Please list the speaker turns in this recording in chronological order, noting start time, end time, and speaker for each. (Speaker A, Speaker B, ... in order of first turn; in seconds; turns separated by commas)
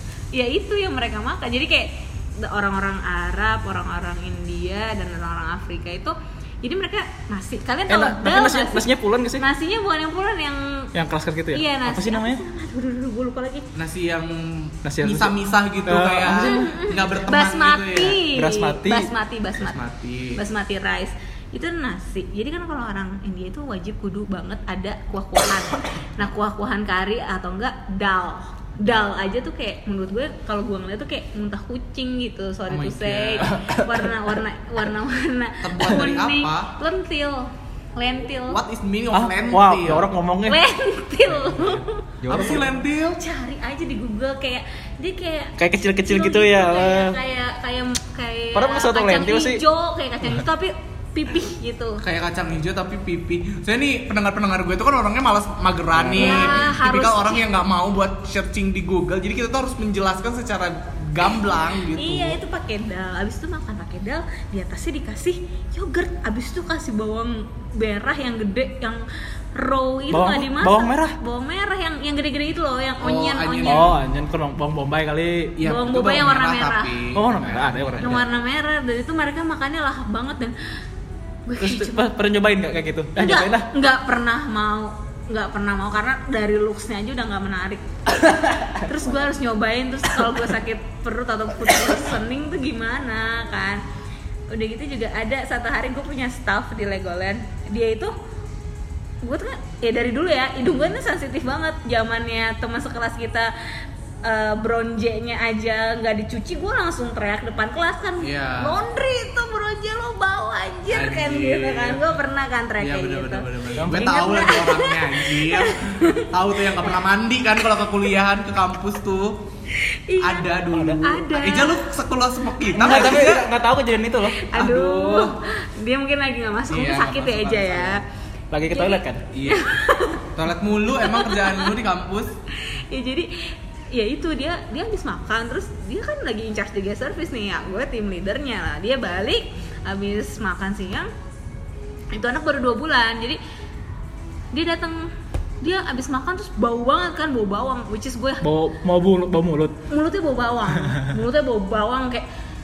Speaker A: 0.3-8.9, Speaker B: 7.9-9.4, Speaker A: 9.4-10.9, Speaker B: 10.9-12.4, Speaker A: 11.5-13.6, Speaker C: 13.7-18.2, Speaker B: 14.8-16.7, Speaker A: 16.4-19.8, Speaker B: 18.3-19.1, Speaker C: 19.6-20.4, Speaker A: 20.3-38.6, Speaker C: 32.7-33.5, Speaker B: 33.4-34.1, Speaker C: 35.6-36.7, Speaker C: 38.5-40.1, Speaker B: 39.1-40.6, Speaker A: 40.5-42.6, Speaker B: 42.2-42.7, Speaker C: 42.3-43.2, Speaker A: 43.2-52.0, Speaker B: 45.6-47.2, Speaker B: 48.5-49.6, Speaker C: 52.0-62.4, Speaker B: 55.9-56.7, Speaker A: 56.2-57.4, Speaker A: 61.9-73.9, Speaker B: 70.1-71.2, Speaker C: 73.0-73.9, Speaker B: 73.7-75.6, Speaker C: 75.6-78.2, Speaker A: 75.6-76.9, Speaker B: 77.1-78.2, Speaker A: 78.0-80.6, Speaker A: 81.5-82.0, Speaker B: 81.6-83.7, Speaker A: 83.2-87.9, Speaker B: 88.1-89.0, Speaker A: 88.8-93.8, Speaker A: 94.5-98.1, Speaker A: 99.2-103.5, Speaker C: 100.7-100.9, Speaker A: 104.2-116.9, Speaker C: 108.2-108.8, Speaker C: 110.9-112.0, Speaker C: 112.8-119.4, Speaker B: 113.8-114.1, Speaker A: 119.7-121.8, Speaker C: 120.2-123.5, Speaker B: 120.7-121.0, Speaker B: 122.8-125.3, Speaker A: 122.9-123.2, Speaker A: 124.3-128.0, Speaker C: 124.9-125.2, Speaker C: 126.7-128.0, Speaker B: 128.5-129.2, Speaker A: 128.7-130.2, Speaker C: 129.3-129.7, Speaker C: 130.3-132.3, Speaker A: 131.0-131.7, Speaker A: 132.5-141.1, Speaker A: 142.1-143.4, Speaker A: 144.5-145.1, Speaker A: 145.6-148.4, Speaker B: 148.4-149.8, Speaker A: 149.9-152.2